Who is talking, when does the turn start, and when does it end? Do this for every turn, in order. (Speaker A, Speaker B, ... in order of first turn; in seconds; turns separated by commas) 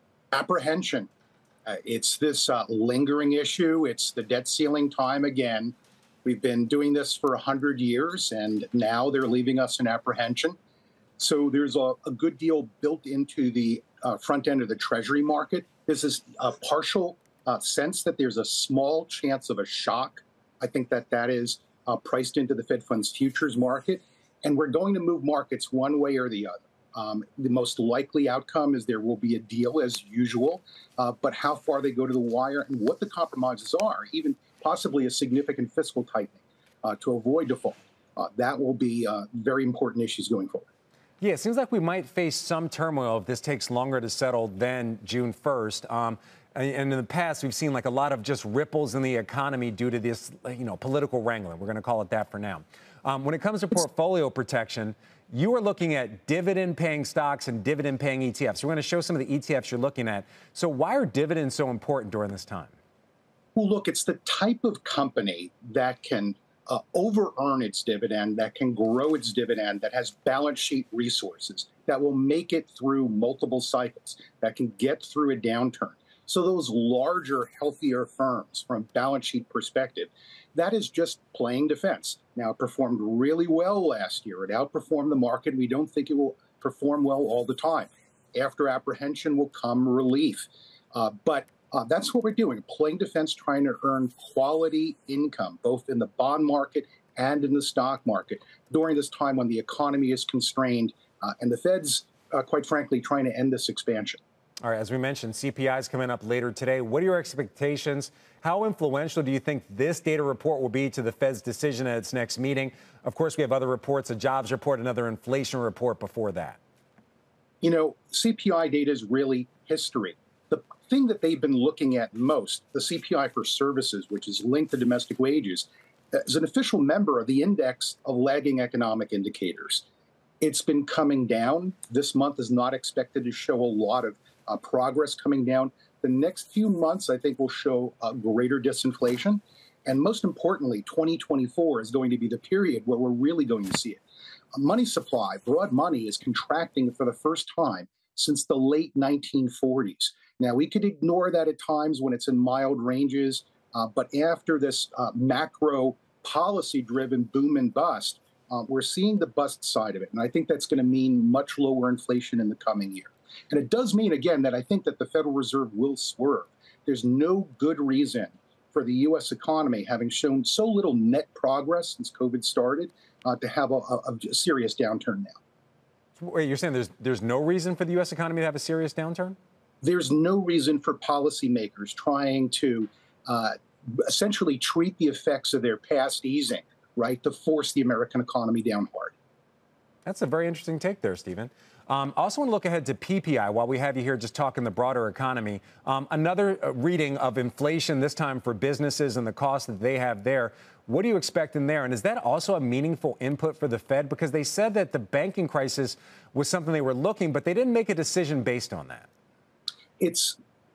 Speaker A: 0.3-1.1, Speaker A: 1.6-10.6, Speaker A: 11.2-40.7, Speaker B: 41.2-62.7, Speaker A: 63.5-104.2, Speaker B: 104.6-116.6, Speaker A: 117.6-129.8, Speaker A: 130.4-144.0, Speaker A: 144.5-175.3, Speaker B: 176.2-179.3, Speaker A: 179.8-189.1, Speaker B: 190.0-209.1, Speaker A: 210.0-210.4